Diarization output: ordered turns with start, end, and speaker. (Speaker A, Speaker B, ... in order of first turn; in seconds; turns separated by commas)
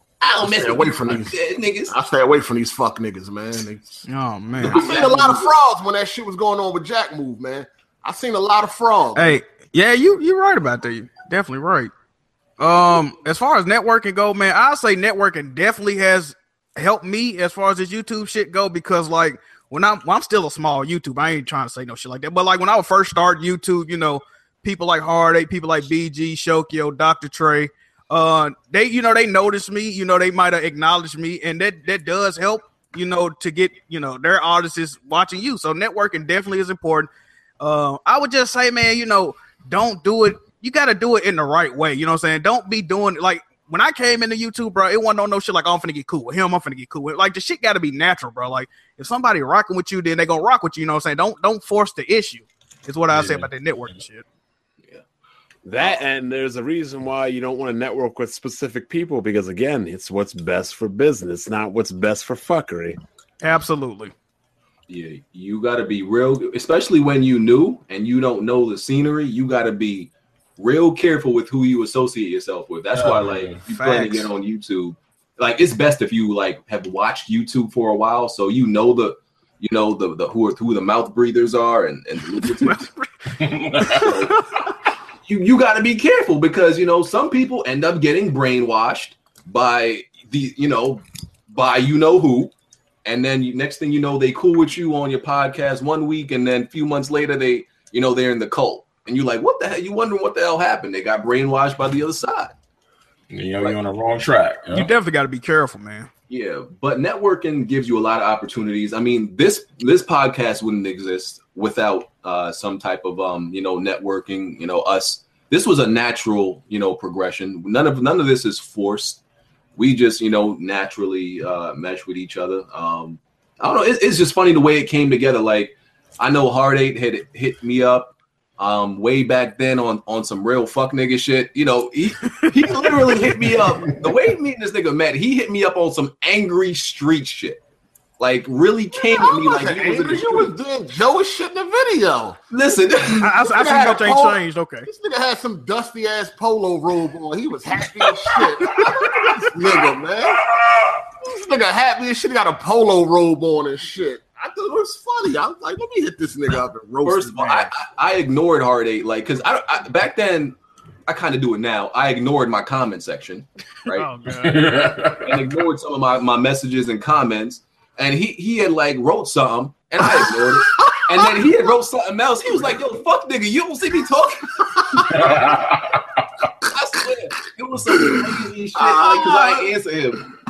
Speaker A: 0.2-1.9, Speaker B: 0.4-4.0, Speaker C: 4.0-4.8, Speaker B: 4.6-9.4, Speaker A: 4.7-5.5, Speaker C: 9.1-11.9, Speaker C: 12.6-37.1, Speaker C: 37.6-54.2, Speaker D: 53.1-53.5, Speaker E: 55.6-63.0, Speaker C: 63.4-64.1, Speaker A: 64.9-82.8, Speaker D: 73.0-73.6, Speaker C: 73.7-74.3, Speaker C: 82.3-84.7, Speaker D: 83.4-84.3, Speaker A: 83.9-84.4, Speaker A: 85.2-92.5, Speaker A: 93.0-102.5, Speaker D: 103.3-104.9, Speaker C: 104.7-106.1, Speaker A: 106.3-119.2, Speaker A: 119.8-137.6, Speaker A: 138.2-140.5, Speaker B: 139.1-142.4, Speaker A: 142.5-143.4, Speaker C: 143.1-144.9, Speaker B: 143.4-150.5, Speaker B: 151.1-157.7, Speaker A: 157.0-164.1, Speaker C: 163.9-164.9, Speaker D: 164.3-165.4, Speaker A: 165.0-175.6, Speaker D: 175.1-176.2, Speaker A: 176.6-180.2, Speaker B: 177.9-178.2, Speaker B: 178.7-179.7